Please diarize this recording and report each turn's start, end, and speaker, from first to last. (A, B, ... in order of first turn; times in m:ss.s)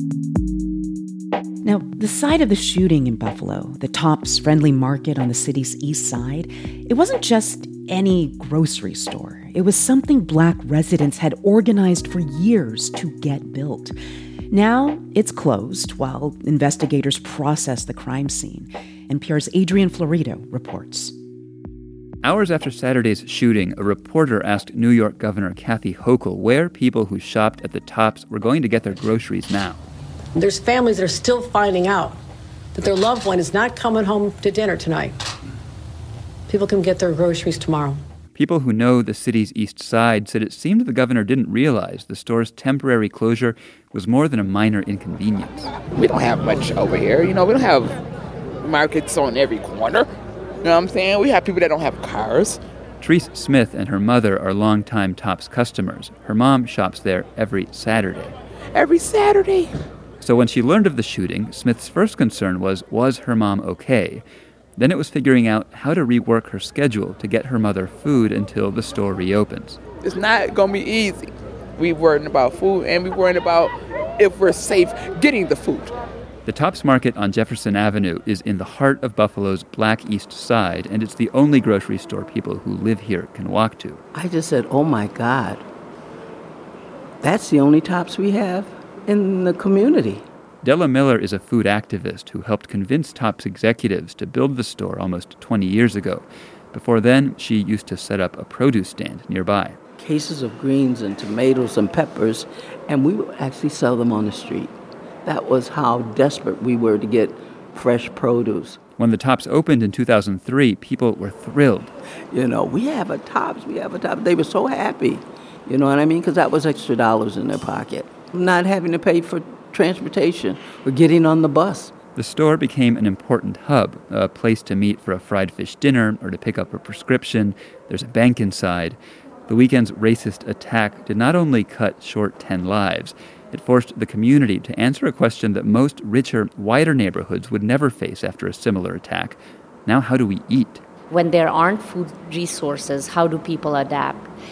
0:01.6-0:13.9 A
0:14.5-0:21.1 A
0:22.2-0:29.8 B
0:30.3-0:32.2 C
0:32.7-0:35.2 C
0:36.5-0:38.0 C
0:38.3-0:45.7 B
0:46.0-0:47.9 D
0:48.6-0:50.0 D
0:50.6-0:52.6 D
0:53.0-0:58.3 B
0:58.7-0:59.7 D
1:00.2-1:04.2 B
1:04.8-1:09.8 B
1:10.0-1:15.9 D
1:16.4-1:24.0 B
1:24.1-1:25.6 E
1:27.2-1:30.2 E
1:30.6-1:39.8 B
1:40.0-1:44.7 E
1:45.2-1:48.8 E
1:49.0-1:51.9 B
1:52.3-2:01.9 E
2:02.2-2:20.8 B
2:21.1-2:24.2 F